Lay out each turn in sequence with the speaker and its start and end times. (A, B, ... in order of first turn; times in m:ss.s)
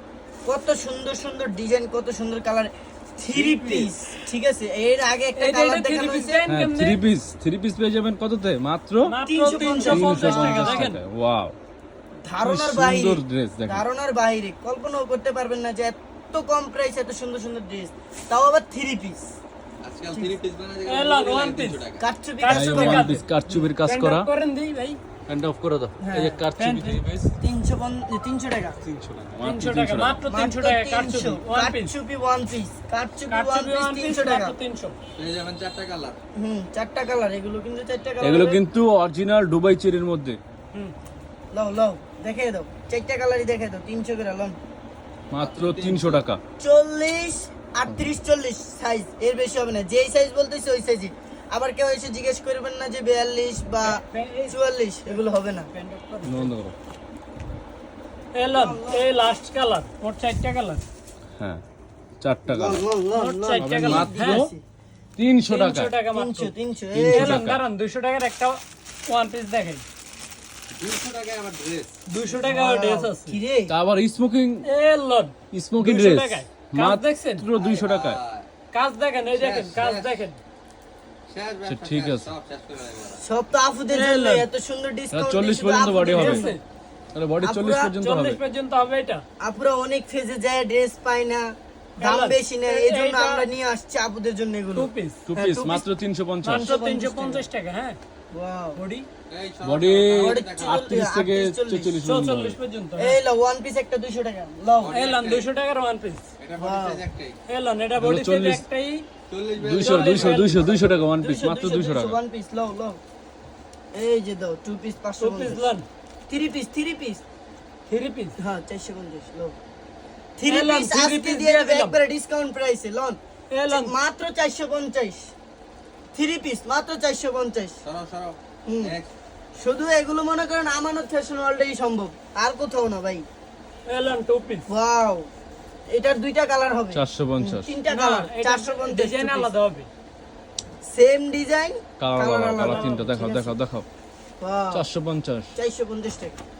0:00.4-0:06.4 A
0:03.4-0:03.9 B
0:05.4-0:07.0 C
0:06.5-0:09.1 B
0:09.0-0:11.0 C
0:09.2-0:10.9 A
0:09.7-0:11.5 B
0:12.2-0:19.4 A
0:12.4-0:13.8 B
0:19.8-0:22.0 D
0:20.9-0:21.8 C
0:22.0-0:23.7 A
0:22.4-0:23.2 C
0:22.5-0:24.3 B
0:23.8-0:25.0 C
0:25.3-0:27.3 B
0:26.0-0:26.4 A
0:26.6-0:27.0 C
0:27.4-0:28.8 A
0:28.8-0:30.2 B
0:29.4-0:31.9 C
0:30.3-0:34.5 A
0:33.3-0:35.0 C
0:35.2-0:36.2 D
0:36.4-0:38.6 A
0:38.2-0:40.4 B
0:41.5-0:44.6 A
0:45.3-0:46.4 B
0:45.4-0:46.2 D
0:46.6-0:55.7 A
0:53.8-0:54.6 C
0:55.7-0:56.5 C
0:56.2-0:56.7 B
0:58.3-1:00.8 C
0:58.5-0:59.1 A
1:02.2-1:02.8 B
1:02.5-1:04.6 A
1:03.1-1:04.5 C
1:03.6-1:04.5 B
1:05.2-1:05.9 B
1:05.5-1:06.5 C
1:06.1-1:07.4 A
1:06.9-1:07.6 B
1:07.1-1:09.8 C
1:10.8-1:11.9 D
1:12.1-1:13.4 C
1:12.4-1:13.7 A
1:13.7-1:14.6 B
1:14.6-1:17.5 C
1:15.5-1:18.2 B
1:17.6-1:18.5 D
1:18.7-1:20.4 C
1:19.4-1:20.3 D
1:21.3-1:23.2 D
1:21.7-1:22.3 B
1:23.2-1:26.5 A
1:23.9-1:24.4 C
1:25.1-1:26.5 B
1:26.0-1:26.6 C
1:27.1-1:28.4 B
1:27.4-1:28.0 A
1:28.0-1:29.2 C
1:29.4-1:35.8 A
1:32.0-1:33.5 C
1:34.7-1:35.2 C
1:35.3-1:36.7 B
1:36.4-1:38.0 C
1:36.6-1:37.4 A
1:38.3-1:38.8 A
1:38.8-1:39.1 C
1:39.3-1:40.9 D
1:39.6-1:42.6 B
1:40.1-1:42.0 A
1:42.0-1:43.2 C
1:43.0-1:44.9 A
1:44.8-1:45.5 D
1:44.9-1:46.3 C
1:46.4-1:47.4 D
1:46.6-1:47.0 A
1:47.5-1:49.1 C
1:48.0-1:48.6 B
1:49.3-1:50.8 D
1:49.6-1:52.2 B
1:49.8-1:50.6 C
1:50.5-1:53.0 A
1:53.9-1:55.7 A
1:55.2-1:55.8 C
1:56.3-1:57.2 A
1:57.9-1:58.3 C
1:58.4-1:59.5 A
2:00.4-2:05.3 A
2:00.4-2:02.0 C
2:03.5-2:03.9 C
2:06.1-2:07.8 A
2:07.8-2:09.1 D
2:08.7-2:08.9 A
2:09.6-2:13.2 A
2:13.9-2:14.6 C
2:14.7-2:15.3 A
2:15.9-2:19.5 A
2:16.9-2:17.7 B
2:17.8-2:19.9 C
2:20.8-2:23.5 A
2:22.0-2:23.8 B
2:22.6-2:23.0 C
2:24.4-2:24.8 A
2:24.7-2:25.5 B
2:25.5-2:26.4 A